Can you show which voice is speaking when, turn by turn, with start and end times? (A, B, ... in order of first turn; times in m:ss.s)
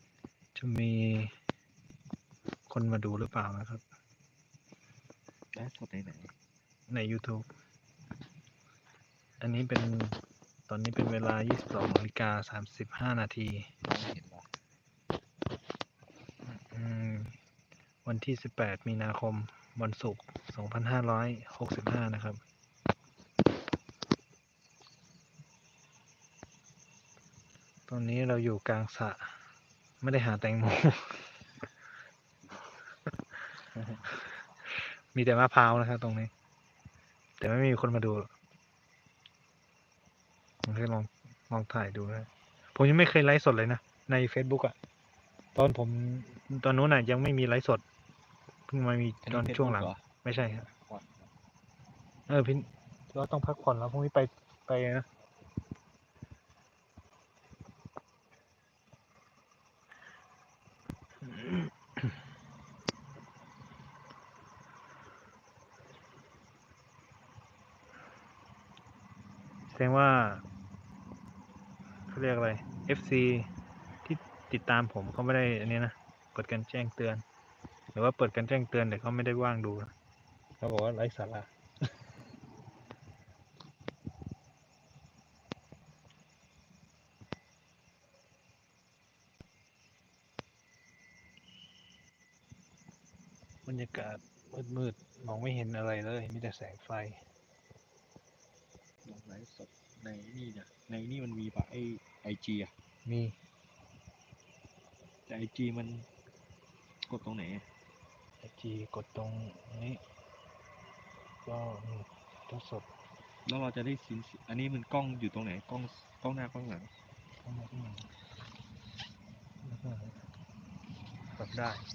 0:00.5-0:01.4 A
0:02.7-0:03.8 A
0:05.5-0:06.3 B
0:06.9-0:07.5 A
0:09.4-0:13.7 A
0:13.8-0:14.5 B
0:16.4-0:17.4 A
0:18.0-0:22.4 A
0:27.9-0:29.5 A
0:30.0-0:31.5 A
0:33.3-0:36.3 A
0:37.4-0:38.3 A
0:40.6-0:44.8 A
0:45.5-0:47.8 A
0:48.7-0:50.7 A
0:49.2-0:50.0 B
0:50.7-0:51.3 B
0:52.3-0:55.1 A
1:01.2-1:02.2 A
1:09.7-1:10.4 A
1:12.1-1:13.5 A
1:14.0-1:17.2 A
1:17.9-1:19.9 A
1:20.6-1:22.1 A
1:33.6-1:37.3 A
1:39.0-1:42.7 B
1:43.0-1:43.4 A
1:45.2-1:46.1 B
1:47.0-1:47.7 B
1:48.4-1:50.0 A
1:51.4-1:52.9 A
1:53.4-1:56.9 B
1:57.4-1:58.1 A
1:59.6-2:00.2 A
2:01.3-2:01.8 A